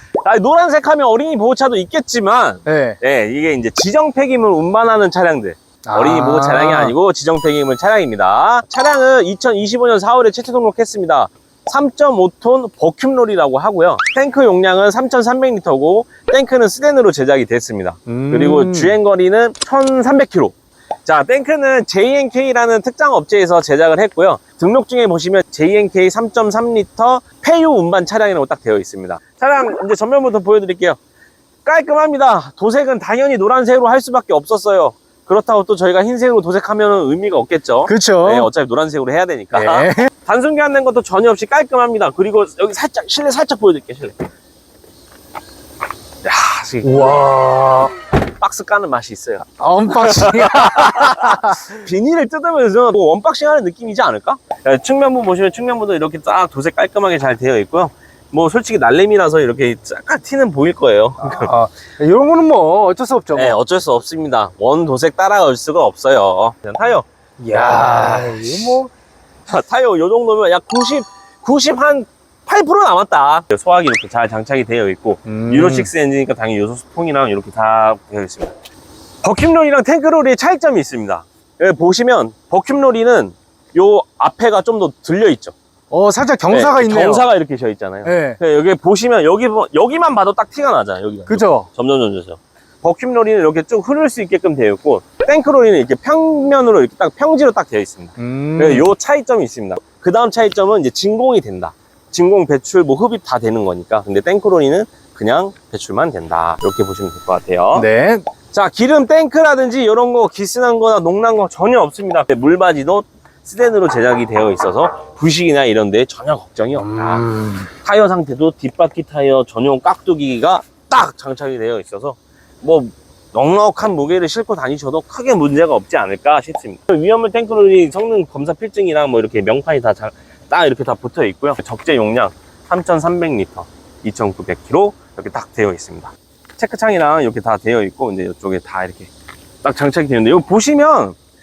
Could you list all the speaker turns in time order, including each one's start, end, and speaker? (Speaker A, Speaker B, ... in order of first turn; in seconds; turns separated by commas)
Speaker A: 0.2-31.0, Speaker B: 2.6-3.0, Speaker B: 5.8-7.0, Speaker B: 18.1-19.0, Speaker A: 31.6-44.3, Speaker B: 37.9-38.5, Speaker B: 39.5-40.1, Speaker A: 46.2-47.4, Speaker B: 46.8-47.9, Speaker A: 48.4-61.5, Speaker B: 49.6-51.9, Speaker B: 61.2-63.6, Speaker A: 63.3-68.8, Speaker B: 67.4-68.9, Speaker A: 69.5-78.5, Speaker B: 75.3-75.9, Speaker A: 79.2-85.5, Speaker B: 85.9-87.2, Speaker A: 86.5-107.9, Speaker B: 88.0-88.4, Speaker B: 91.3-91.7, Speaker B: 98.2-98.9, Speaker B: 107.7-108.3, Speaker A: 108.5-139.1, Speaker B: 116.8-117.7, Speaker A: 139.6-141.2